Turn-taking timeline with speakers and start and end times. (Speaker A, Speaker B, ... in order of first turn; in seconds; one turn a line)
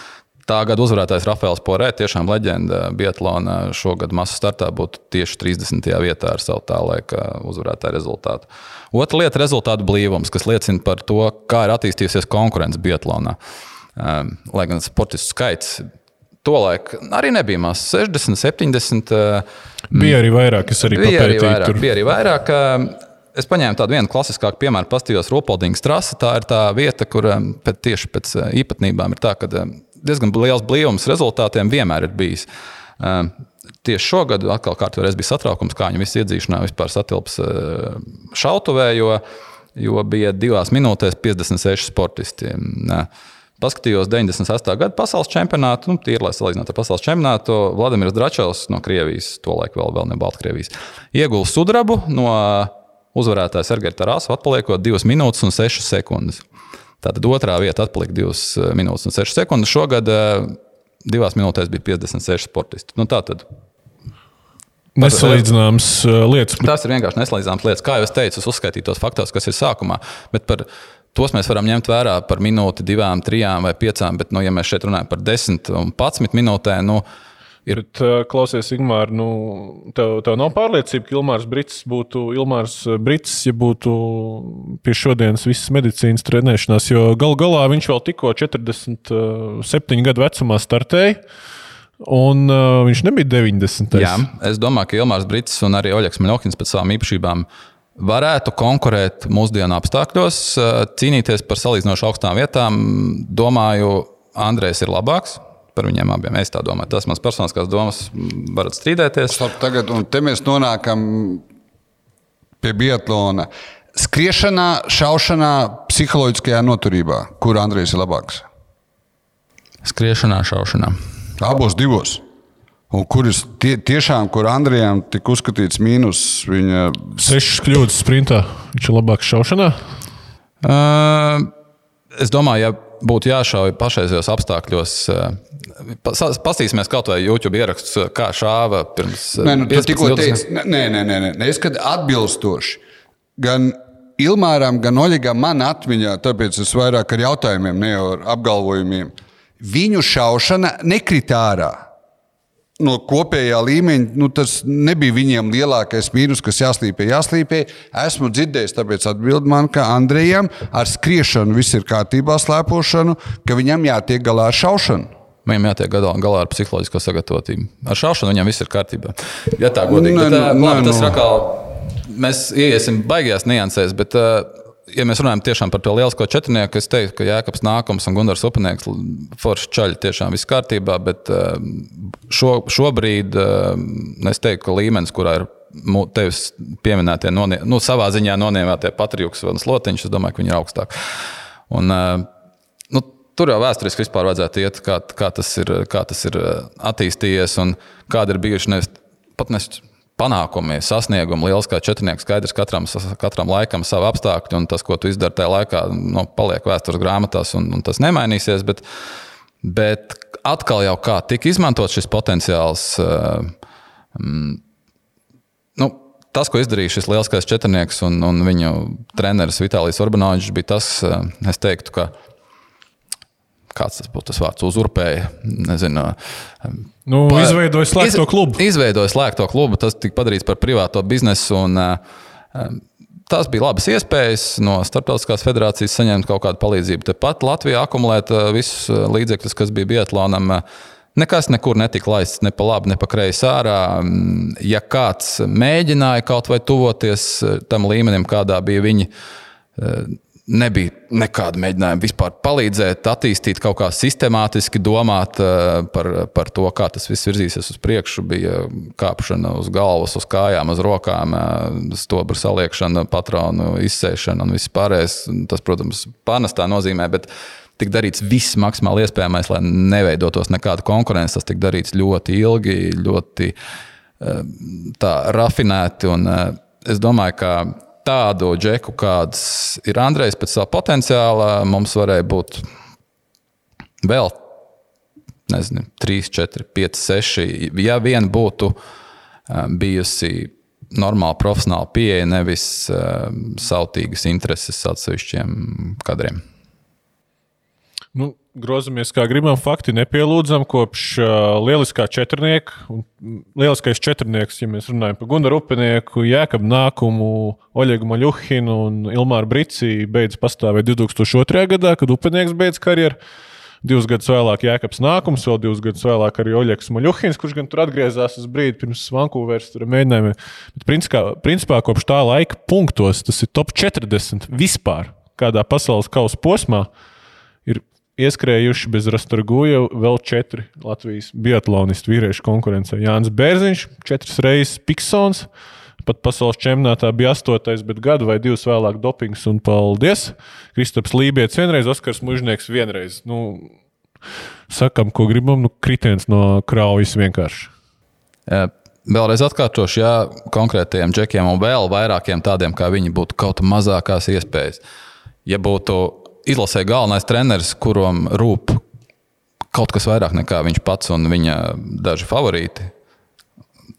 Speaker A: 0.5-13.4
Speaker A: 14.0-15.8
Speaker A: 16.4-20.2
Speaker B: 19.9-21.8
Speaker A: 20.8-32.5
Speaker A: 33.0-33.3
Speaker A: 33.8-39.2
Speaker A: 39.8-43.1
Speaker A: 43.6-56.4
Speaker A: 57.0-63.4
Speaker B: 65.0-66.7
Speaker A: 65.0-65.5
Speaker A: 66.6-77.0
Speaker B: 77.7-91.2
Speaker B: 92.0-94.2
Speaker A: 93.9-109.4
Speaker C: 109.3-111.4
Speaker C: 112.6-118.4
Speaker A: 119.8-121.0
Speaker C: 121.4-122.2
Speaker C: 122.9-127.3
Speaker B: 127.2-129.8
Speaker A: 130.6-131.5
Speaker A: 132.2-140.4
Speaker C: 139.4-142.8
Speaker C: 143.4-151.8
Speaker C: 152.8-165.1
Speaker A: 165.4-190.9
Speaker C: 169.8-171.2
Speaker A: 191.7-192.3
Speaker A: 192.9-208.8
Speaker A: 209.6-213.5
Speaker A: 214.1-214.6
Speaker A: 215.8-222.1
Speaker A: 223.7-232.0
Speaker B: 227.1-228.6
Speaker A: 232.5-240.6
Speaker A: 241.1-249.1
Speaker A: 249.8-273.5
Speaker A: 274.2-282.6
Speaker A: 284.0-284.4
Speaker A: 285.5-288.8
Speaker A: 289.5-296.4
Speaker B: 298.1-313.2
Speaker B: 313.8-326.9
Speaker B: 327.6-335.5
Speaker B: 336.0-343.7
Speaker B: 344.7-347.7
Speaker A: 348.5-354.8
Speaker A: 355.4-358.8
Speaker A: 359.7-362.9